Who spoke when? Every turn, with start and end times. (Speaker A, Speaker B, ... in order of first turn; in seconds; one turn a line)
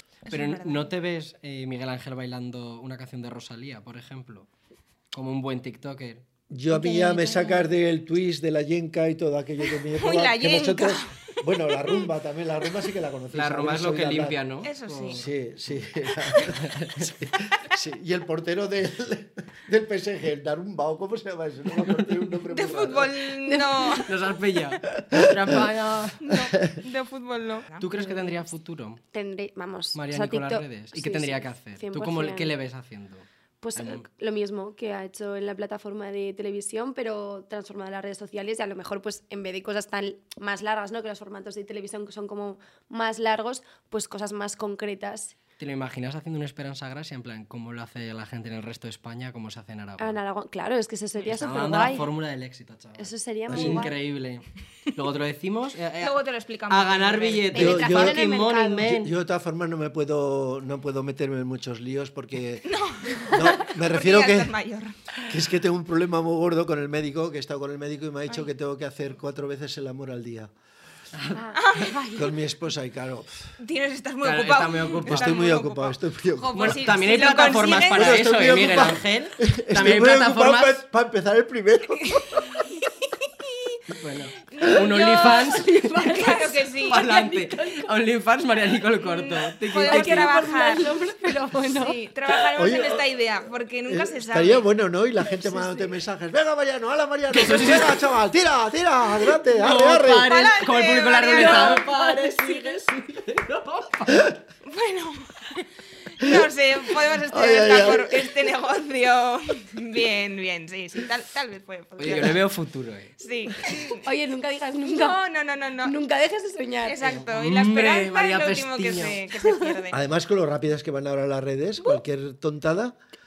Speaker A: 0.3-0.9
Speaker B: 0.3-4.5
Speaker B: 5.1-6.2
Speaker C: 6.5-14.4
Speaker A: 6.8-7.4
Speaker D: 6.8-7.5
Speaker A: 9.9-12.1
Speaker B: 13.3-15.3
Speaker A: 14.6-15.2
Speaker C: 15.1-23.2
Speaker B: 16.4-17.0
Speaker A: 22.5-24.1
Speaker D: 23.4-24.0
Speaker B: 23.9-26.4
Speaker C: 25.0-25.5
Speaker A: 26.2-27.9
Speaker B: 27.8-29.0
Speaker D: 27.9-28.4
Speaker D: 29.1-32.5
Speaker B: 29.9-34.0
Speaker D: 33.6-45.4
Speaker B: 45.6-50.2
Speaker D: 50.0-52.1
Speaker B: 51.2-59.1
Speaker D: 53.0-53.9
Speaker C: 53.5-53.9
Speaker A: 56.0-57.5
Speaker D: 57.5-58.9
Speaker C: 57.5-58.2
Speaker C: 58.8-64.5
Speaker A: 62.6-65.0
Speaker C: 65.2-70.5
Speaker B: 71.1-71.5
Speaker D: 71.3-72.3
Speaker A: 71.5-72.0
Speaker C: 72.1-73.5
Speaker A: 73.6-78.2
Speaker B: 74.2-75.4
Speaker C: 75.0-76.9
Speaker B: 76.5-80.8
Speaker C: 77.9-82.6
Speaker A: 82.0-82.4
Speaker B: 83.9-90.4
Speaker A: 84.4-87.0
Speaker D: 84.9-87.9
Speaker A: 89.0-90.9
Speaker D: 89.8-92.5
Speaker A: 91.6-94.7
Speaker C: 92.5-93.0
Speaker C: 93.9-100.3
Speaker D: 95.4-95.9
Speaker B: 97.3-98.0
Speaker B: 99.3-104.3
Speaker A: 100.2-101.9
Speaker D: 101.3-102.8
Speaker A: 104.6-105.6
Speaker A: 106.1-112.4
Speaker C: 107.3-108.3
Speaker B: 112.0-113.2
Speaker A: 113.2-114.0
Speaker D: 113.6-115.2
Speaker A: 114.8-115.9
Speaker D: 115.8-117.2
Speaker A: 116.8-120.0
Speaker B: 117.2-119.3
Speaker C: 119.9-123.0